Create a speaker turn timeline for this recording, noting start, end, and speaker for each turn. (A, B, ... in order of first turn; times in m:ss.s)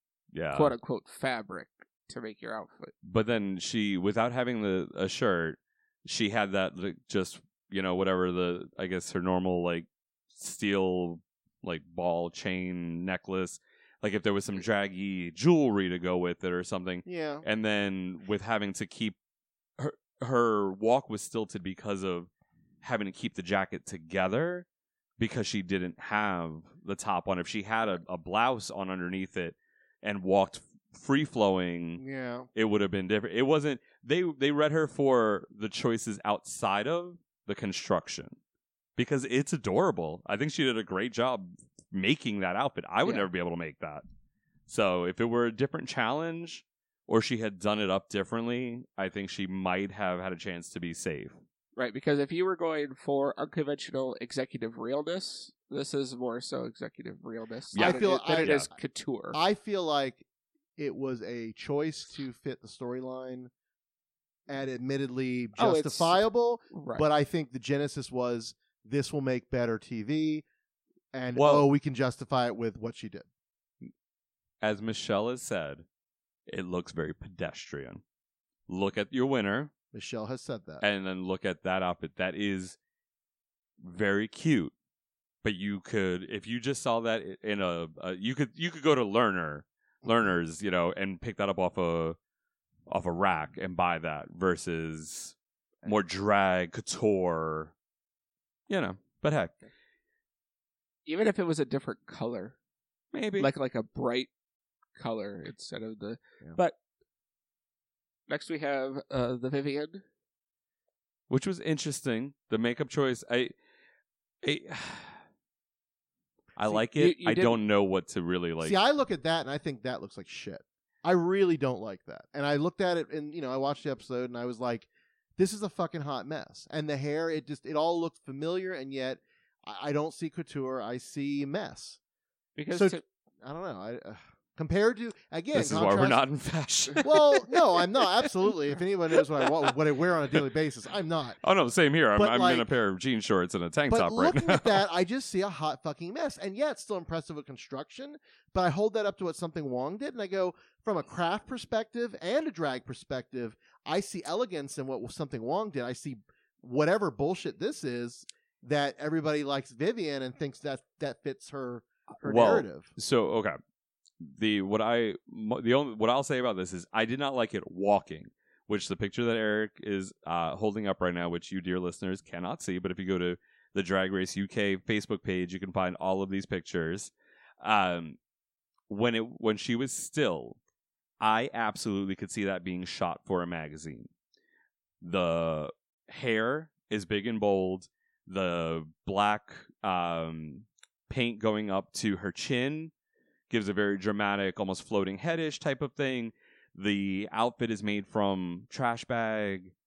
0:00.3-0:00.7 A
0:00.5-0:02.9 B
0:03.0-0:19.1 A
0:17.0-0:17.4 C
0:19.8-0:22.3 A
0:22.8-0:24.6 A
0:25.2-0:32.0 A
0:32.0-0:32.5 C
0:32.5-0:38.4 A
0:39.0-0:44.0 A
0:44.7-0:51.4 A
0:51.8-0:59.4 B
0:57.7-0:58.7 A
0:57.8-0:58.7 C
0:59.3-1:00.2 C
1:00.8-1:03.5 C
1:04.5-1:10.4 C
1:05.6-1:07.1 B
1:11.1-1:13.2 C
1:11.3-1:11.7 A
1:14.6-1:15.8 A
1:16.5-1:18.0 A
1:18.7-1:19.7 A
1:19.9-1:20.8 C
1:20.8-1:22.8 A
1:23.8-1:24.7 A
1:25.4-1:32.2 A
1:30.0-1:30.3 C
1:32.9-1:37.7 A
1:38.7-1:39.5 A
1:41.0-1:42.6 B
1:43.1-1:43.5 A
1:43.4-1:44.3 B
1:45.0-1:46.8 B
1:48.3-1:50.0 B
1:51.3-1:53.5 A
1:54.4-1:55.2 A
1:56.6-1:58.8 A
1:56.7-1:57.6 B
1:58.6-2:12.0 C
2:12.6-2:13.0 B
2:12.7-2:16.2 C
2:15.5-2:17.5 A
2:17.0-2:21.4 C
2:21.4-2:24.8 A
2:22.1-2:22.7 C
2:23.9-2:42.9 C
2:42.2-2:43.6 A
2:44.2-2:58.2 A
2:58.9-3:00.6 A
3:01.2-3:04.1 A
3:05.0-3:12.9 A
3:13.5-3:19.7 A